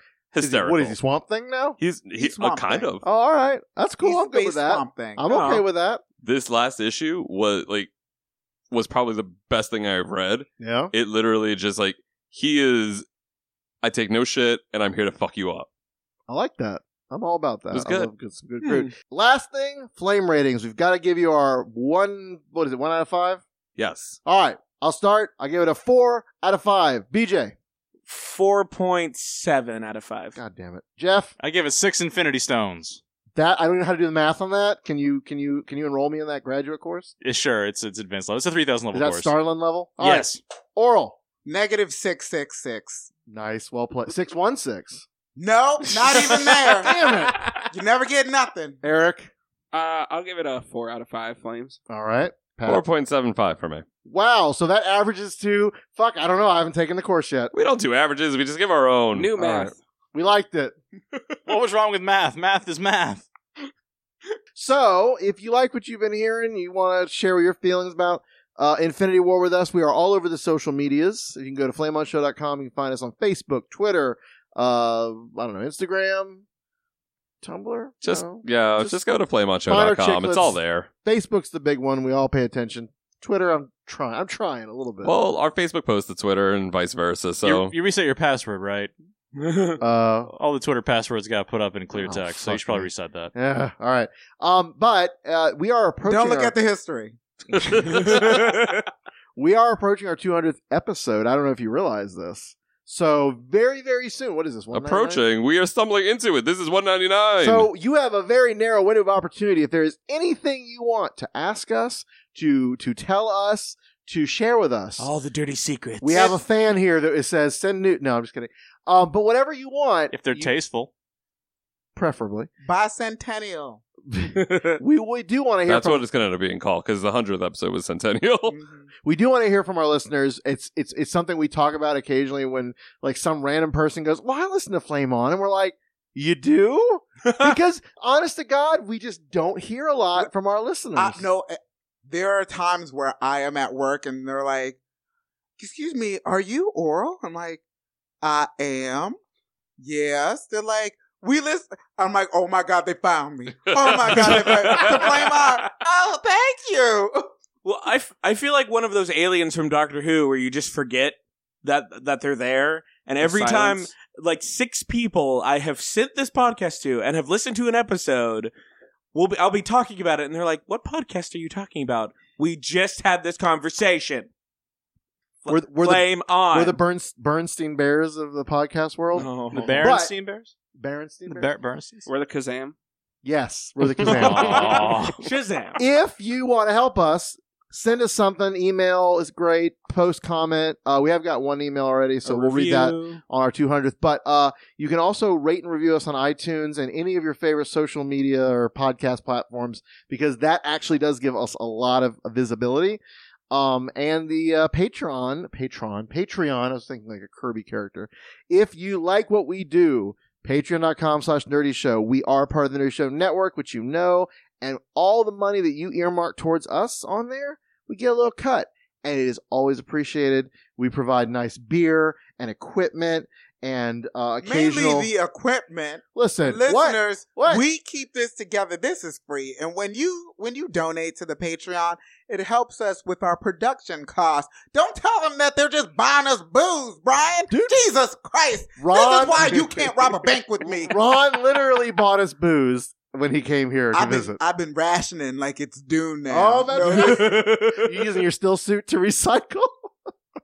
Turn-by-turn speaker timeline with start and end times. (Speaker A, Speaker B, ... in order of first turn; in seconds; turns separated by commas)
Speaker A: 0.3-1.0, Speaker B: 0.4-1.8, Speaker A: 1.8-3.0, Speaker C: 2.2-2.9, Speaker B: 3.0-6.0, Speaker C: 4.0-5.3, Speaker D: 5.3-5.7, Speaker A: 6.2-7.9, Speaker A: 8.7-13.1, Speaker B: 10.6-10.9, Speaker A: 13.8-15.7, Speaker B: 16.3-23.4, Speaker A: 17.7-18.1, Speaker A: 23.8-24.2, Speaker B: 24.2-27.5, Speaker D: 28.1-30.3, Speaker B: 30.3-31.3, Speaker E: 31.4-33.0, Speaker B: 33.3-37.1, Speaker E: 37.2-39.3, Speaker B: 38.9-41.2, Speaker E: 40.0-40.4, Speaker C: 41.5-43.1, Speaker B: 43.3-45.0, Speaker C: 45.4-47.0, Speaker B: 46.8-47.4, Speaker C: 47.7-48.8, Speaker B: 48.8-49.3, Speaker F: 49.7-51.8, Speaker B: 51.9-52.8, Speaker A: 52.6-53.9, Speaker B: 54.0-57.5, Speaker A: 57.5-59.4, Speaker F: 59.1-59.7, Speaker B: 59.4-60.8, Speaker E: 61.5-63.2, Speaker B: 64.5-76.4, Speaker B: 77.4-79.0, Speaker A: 78.0-80.9, Speaker B: 79.7-85.2, Speaker A: 85.0-87.7, Speaker E: 87.4-88.9, Speaker B: 89.8-90.3, Speaker E: 90.3-93.3, Speaker B: 91.9-96.5, Speaker C: 96.0-97.2, Speaker B: 97.9-98.5, Speaker B: 99.3-105.2, Speaker A: 104.7-107.7, Speaker B: 107.4-115.1, Speaker D: 115.0-116.4, Speaker B: 116.0-120.5, Speaker E: 120.1-120.9, Speaker B: 121.9-122.5, Speaker C: 122.6-123.8, Speaker B: 124.1-126.0, Speaker A: 125.7-128.6, Speaker C: 128.5-128.9, Speaker B: 129.0-141.2, Speaker C: 140.9-141.6, Speaker C: 142.1-144.8, Speaker C: 145.6-147.6, Speaker C: 148.2-149.2, Speaker C: 149.8-157.3, Speaker A: 153.6-155.2, Speaker D: 157.6-168.5, Speaker F: 163.2-163.9, Speaker D: 169.1-174.3, Speaker D: 175.4-176.8, Speaker B: 175.5-180.1, Speaker D: 179.1-179.9, Speaker F: 179.2-179.5, Speaker E: 179.5-180.5, Speaker B: 180.8-181.5, Speaker E: 181.2-182.1, Speaker F: 182.1-182.8, Speaker B: 183.2-184.9, Speaker F: 184.0-185.0, Speaker E: 184.0-185.2, Speaker D: 185.2-185.8, Speaker B: 185.8-225.1, Speaker D: 192.2-193.2, Speaker C: 224.4-240.9, Speaker B: 226.2-227.6, Speaker B: 237.5-237.8, Speaker B: 238.8-240.1, Speaker B: 240.6-244.4, Speaker C: 243.9-247.5, Speaker B: 246.3-250.1